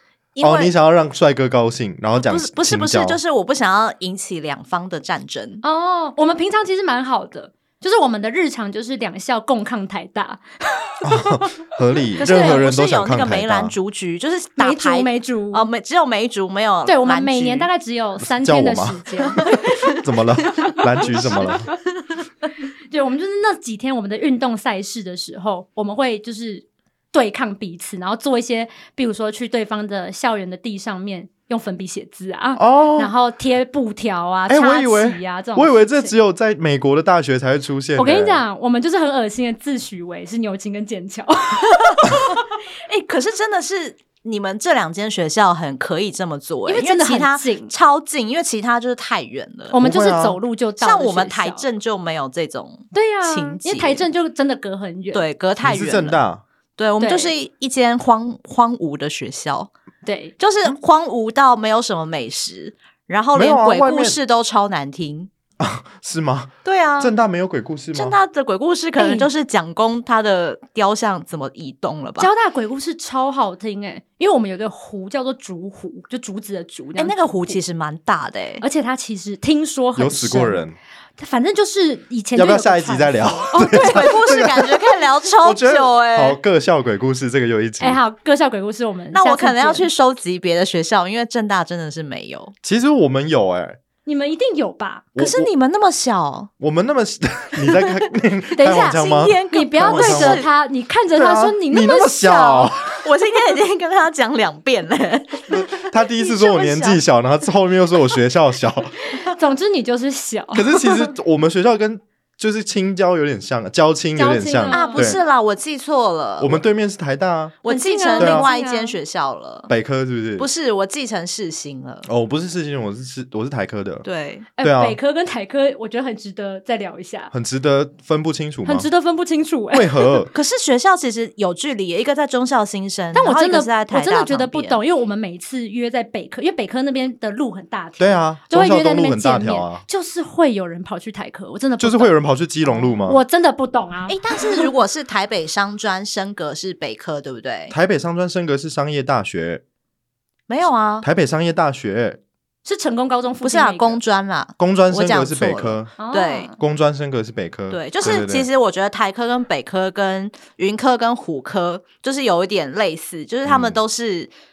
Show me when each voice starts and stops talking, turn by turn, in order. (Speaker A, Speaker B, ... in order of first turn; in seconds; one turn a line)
Speaker A: 0.3-0.7
Speaker B: 0.4-3.2
Speaker A: 2.1-5.6
Speaker C: 5.6-11.4
Speaker B: 11.0-13.7
Speaker C: 12.2-12.7
Speaker A: 12.2-17.7
Speaker C: 14.6-15.7
Speaker C: 16.8-21.5
Speaker B: 18.3-19.5
Speaker A: 19.4-20.0
Speaker B: 20.0-21.7
Speaker A: 21.1-21.5
Speaker C: 22.9-36.1
Speaker B: 32.6-33.1
Speaker B: 34.5-38.4
Speaker C: 38.0-42.4
Speaker A: 42.9-49.8
Speaker C: 46.6-47.7
Speaker C: 49.7-51.7
Speaker B: 49.8-50.4
Speaker A: 50.8-54.1
Speaker C: 52.9-55.2
Speaker A: 55.1-56.2
Speaker B: 55.6-56.4
Speaker A: 56.8-59.7
Speaker C: 57.0-57.3
Speaker C: 60.0-60.3
Speaker A: 60.4-65.3
Speaker B: 63.3-64.2
Speaker B: 65.6-68.2
Speaker A: 66.6-67.1
Speaker A: 67.9-72.3
Speaker C: 69.0-69.3
Speaker C: 72.2-77.6
Speaker A: 77.0-78.6
Speaker C: 78.6-80.7
Speaker B: 80.0-80.8
Speaker C: 81.2-84.1
Speaker B: 82.3-88.0
Speaker A: 83.6-86.4
Speaker C: 87.8-89.9
Speaker A: 89.1-92.5
Speaker B: 92.6-93.8
Speaker C: 94.0-95.0
Speaker B: 95.2-95.5
Speaker A: 95.2-96.5
Speaker B: 96.6-100.5
Speaker A: 97.6-98.0
Speaker C: 98.5-102.7
Speaker A: 98.7-100.5
Speaker B: 101.1-103.0
Speaker A: 103.0-105.6
Speaker B: 105.5-108.9
Speaker C: 106.1-107.0
Speaker C: 109.1-111.1
Speaker B: 110.5-115.2
Speaker C: 114.1-115.2
Speaker A: 114.7-116.6
Speaker B: 116.4-117.5
Speaker A: 117.6-119.7
Speaker C: 117.7-119.0
Speaker B: 118.2-118.5
Speaker B: 119.7-120.5
Speaker A: 120.4-122.1
Speaker B: 122.0-124.0
Speaker A: 124.0-124.5
Speaker C: 124.5-127.3
Speaker B: 124.6-125.0
Speaker B: 127.3-128.9
Speaker C: 128.6-130.2
Speaker B: 129.7-130.3
Speaker A: 130.3-134.8
Speaker C: 133.1-142.1
Speaker B: 138.0-139.8
Speaker B: 141.8-143.2
Speaker C: 142.7-144.7
Speaker A: 144.1-147.7
Speaker B: 147.7-149.6
Speaker A: 150.5-151.1
Speaker B: 151.0-152.2
Speaker C: 152.6-154.0
Speaker A: 153.4-156.5
Speaker B: 154.6-155.9
Speaker C: 156.0-156.6
Speaker B: 156.6-158.5
Speaker A: 157.7-164.3
Speaker B: 163.4-163.8